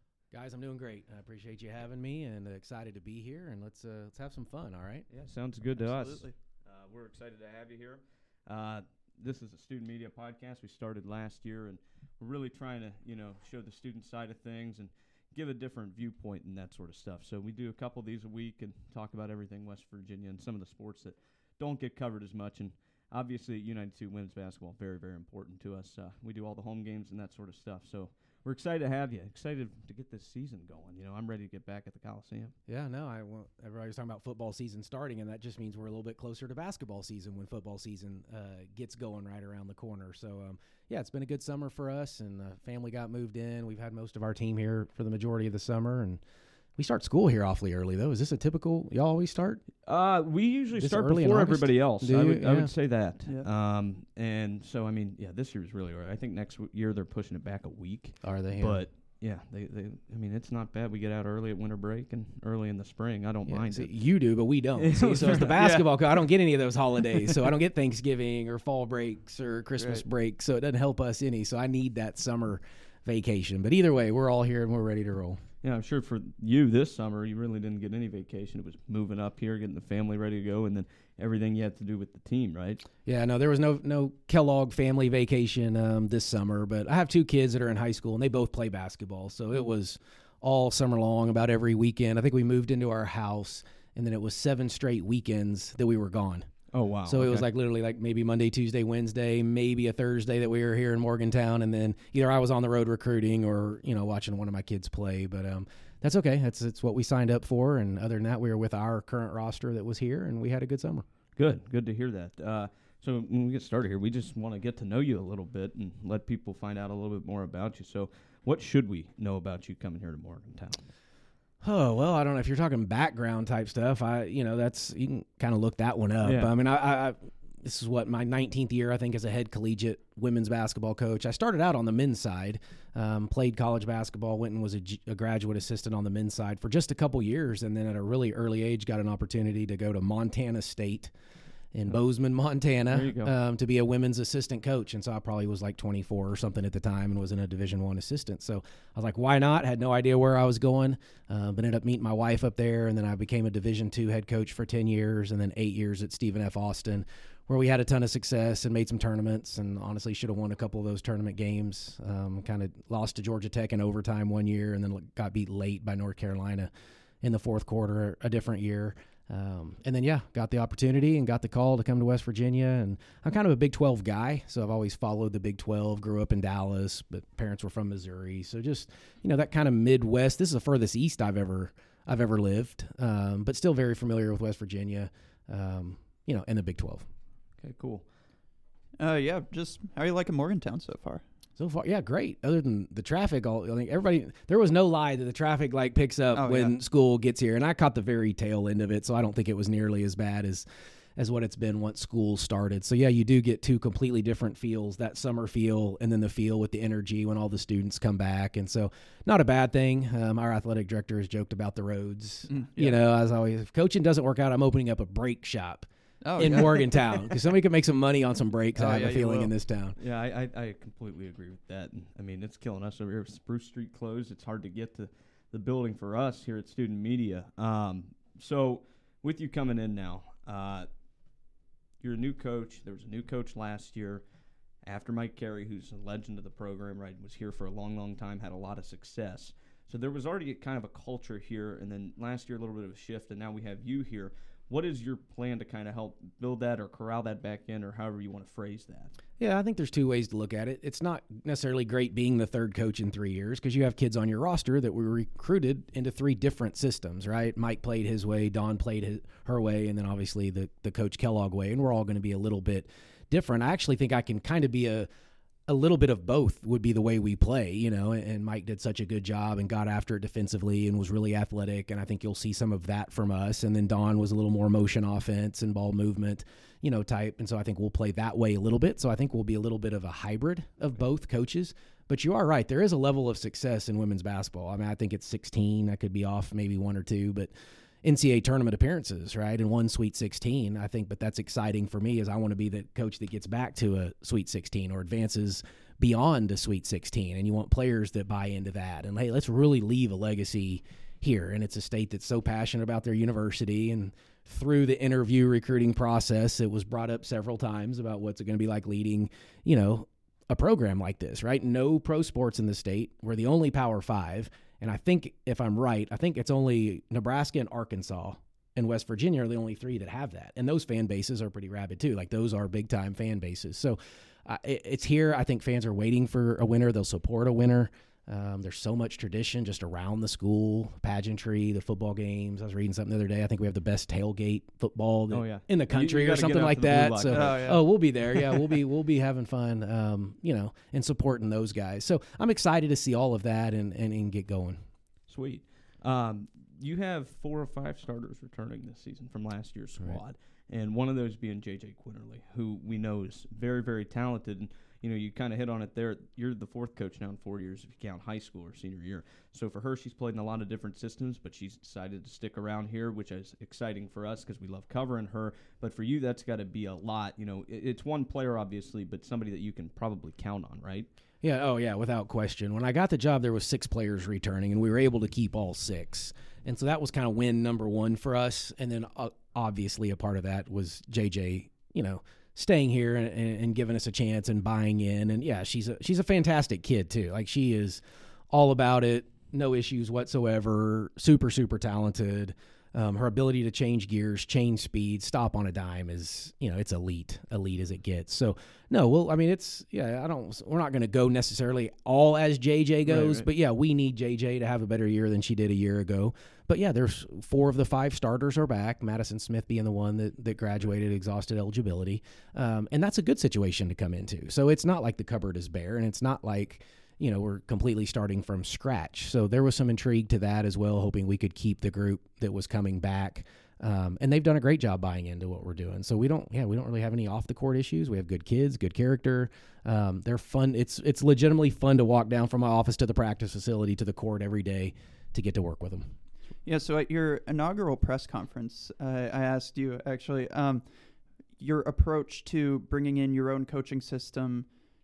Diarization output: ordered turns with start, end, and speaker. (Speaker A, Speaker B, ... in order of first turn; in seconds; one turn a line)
Speaker A: 0.3-5.1
Speaker B: 5.1-32.5
Speaker C: 5.8-6.3
Speaker A: 32.7-46.2
Speaker A: 46.8-49.6
Speaker B: 49.8-63.9
Speaker A: 50.8-52.7
Speaker A: 58.2-58.8
Speaker A: 63.5-75.4
Speaker B: 64.8-65.6
Speaker C: 65.5-65.9
Speaker C: 69.8-70.0
Speaker B: 75.6-82.8
Speaker A: 83.0-96.5
Speaker B: 96.7-97.5
Speaker A: 97.1-111.0
Speaker B: 111.4-120.8
Speaker A: 121.6-141.1
Speaker B: 126.2-126.5
Speaker A: 141.7-166.7
Speaker B: 142.9-143.3
Speaker A: 167.2-187.1
Speaker B: 187.6-188.1
Speaker C: 189.0-191.2
Speaker A: 191.6-200.7
Speaker C: 196.3-196.7
Speaker A: 201.2-220.0
Speaker C: 212.5-213.0
Speaker C: 216.2-217.3
Speaker C: 218.8-219.5
Speaker B: 220.0-230.9
Speaker B: 232.0-234.2
Speaker B: 234.8-249.1
Speaker A: 249.4-265.1
Speaker A: 265.7-287.5
Speaker A: 288.0-344.8
Speaker B: 335.3-337.8
Speaker C: 337.3-337.8
Speaker B: 345.3-371.1
Speaker A: 371.4-436.1
Speaker B: 403.1-403.5
Speaker C: 436.6-440.9
Speaker C: 441.6-444.7